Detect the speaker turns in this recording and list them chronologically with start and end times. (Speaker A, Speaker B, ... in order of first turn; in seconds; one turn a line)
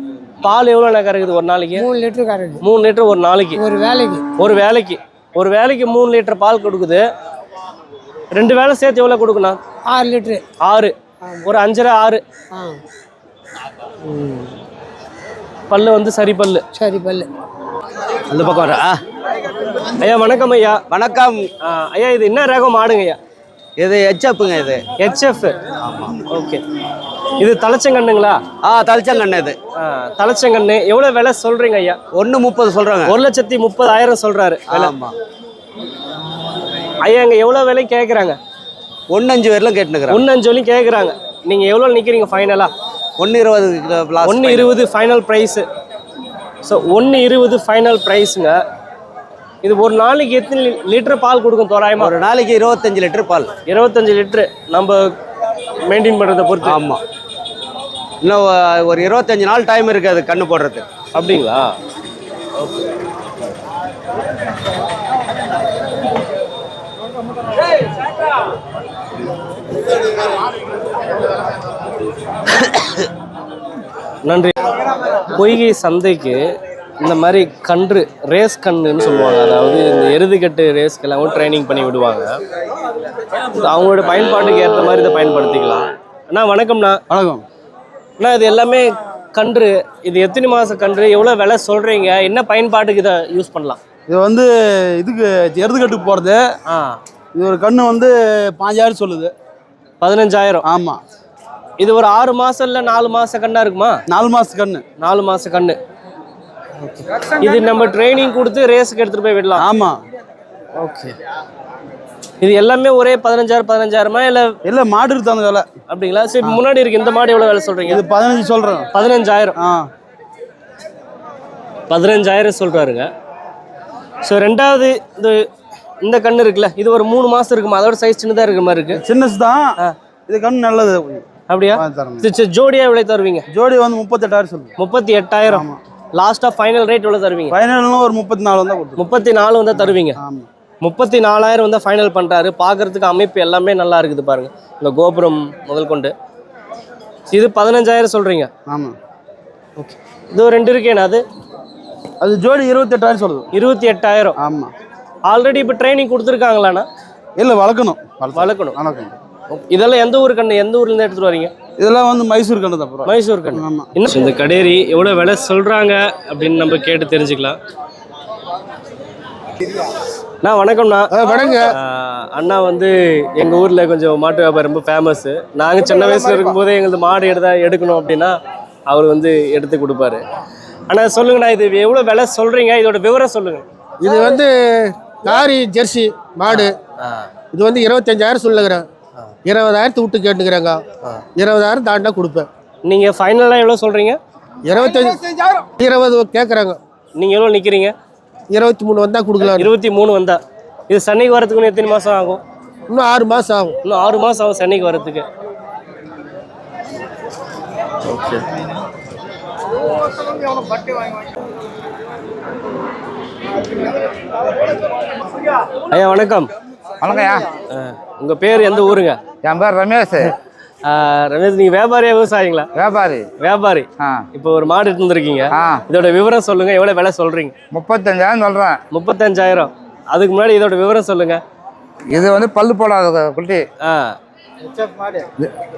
Speaker A: 0.4-1.9
Speaker B: 1.8-2.6
Speaker A: 2.6-3.6
Speaker B: 3.6-4.3
Speaker A: 4.4-7.0
Speaker A: 8.3-9.6
Speaker B: 9.9-10.4
Speaker A: 10.6-12.2
Speaker B: 12.5-12.8
Speaker B: 14.1-14.5
Speaker A: 15.7-16.6
Speaker B: 16.8-17.3
Speaker A: 18.3-18.9
Speaker A: 20.0-20.8
Speaker C: 20.9-21.4
Speaker A: 21.6-23.2
Speaker C: 23.8-24.8
Speaker A: 25.0-25.6
Speaker C: 25.9-26.1
Speaker A: 26.3-26.6
Speaker A: 27.4-28.4
Speaker C: 28.6-29.6
Speaker A: 29.8-32.0
Speaker C: 32.2-33.2
Speaker A: 33.1-34.9
Speaker C: 34.7-35.1
Speaker A: 37.0-38.4
Speaker C: 39.1-40.2
Speaker A: 40.1-42.7
Speaker C: 43.2-44.7
Speaker A: 44.2-45.7
Speaker A: 46.6-48.6
Speaker A: 49.6-52.1
Speaker C: 52.0-53.5
Speaker A: 53.7-55.1
Speaker A: 55.9-56.8
Speaker C: 56.6-57.0
Speaker C: 58.2-60.9
Speaker A: 61.1-61.7
Speaker A: 74.3-74.6
Speaker A: 75.3-76.4
Speaker A: 77.0-82.4
Speaker A: 83.5-87.0
Speaker D: 87.1-87.4
Speaker A: 88.2-93.8
Speaker D: 94.1-96.4
Speaker A: 96.7-97.0
Speaker D: 97.3-99.3
Speaker A: 100.0-100.7
Speaker D: 100.7-101.0
Speaker A: 101.8-104.0
Speaker D: 104.1-104.8
Speaker A: 105.0-105.8
Speaker A: 106.8-109.6
Speaker D: 109.6-110.0
Speaker A: 110.8-111.2
Speaker A: 112.4-114.6
Speaker D: 114.7-115.7
Speaker A: 115.9-118.0
Speaker D: 117.9-118.9
Speaker A: 118.9-119.6
Speaker D: 119.6-119.9
Speaker A: 121.9-123.1
Speaker A: 124.2-125.5
Speaker A: 126.0-129.0
Speaker D: 128.9-129.7
Speaker D: 130.3-131.3
Speaker A: 131.5-133.5
Speaker D: 131.8-132.2
Speaker D: 133.5-134.7
Speaker A: 134.8-137.6
Speaker D: 135.5-135.8
Speaker D: 137.5-139.0
Speaker A: 139.0-140.2
Speaker D: 140.2-140.5
Speaker A: 140.8-146.1
Speaker A: 147.3-148.5
Speaker D: 148.7-148.9
Speaker A: 149.8-151.2
Speaker D: 152.2-153.5
Speaker A: 153.5-154.4
Speaker D: 154.4-154.7
Speaker A: 155.3-156.9
Speaker D: 157.4-159.1
Speaker A: 158.3-158.8
Speaker A: 159.7-161.5
Speaker D: 161.8-163.9
Speaker A: 163.1-167.6
Speaker A: 170.4-171.1
Speaker D: 171.2-171.6
Speaker A: 171.7-178.4
Speaker D: 175.9-176.6
Speaker A: 178.9-180.2
Speaker A: 180.9-183.7
Speaker E: 184.0-186.8
Speaker A: 186.5-187.3
Speaker E: 187.5-188.8
Speaker E: 189.5-190.8
Speaker E: 191.4-192.5
Speaker A: 192.9-194.2
Speaker E: 194.7-196.8
Speaker A: 197.2-197.9
Speaker E: 198.5-199.7
Speaker A: 199.6-202.4
Speaker E: 202.9-203.8
Speaker A: 203.8-205.3
Speaker A: 215.9-216.5
Speaker F: 217.0-217.5
Speaker A: 217.7-219.2
Speaker F: 219.4-220.3
Speaker A: 220.8-222.7
Speaker F: 222.8-223.3
Speaker A: 223.4-227.5
Speaker F: 224.0-224.2
Speaker F: 225.5-225.8
Speaker F: 227.7-228.8
Speaker A: 228.9-231.4
Speaker F: 232.1-233.6
Speaker A: 233.8-234.2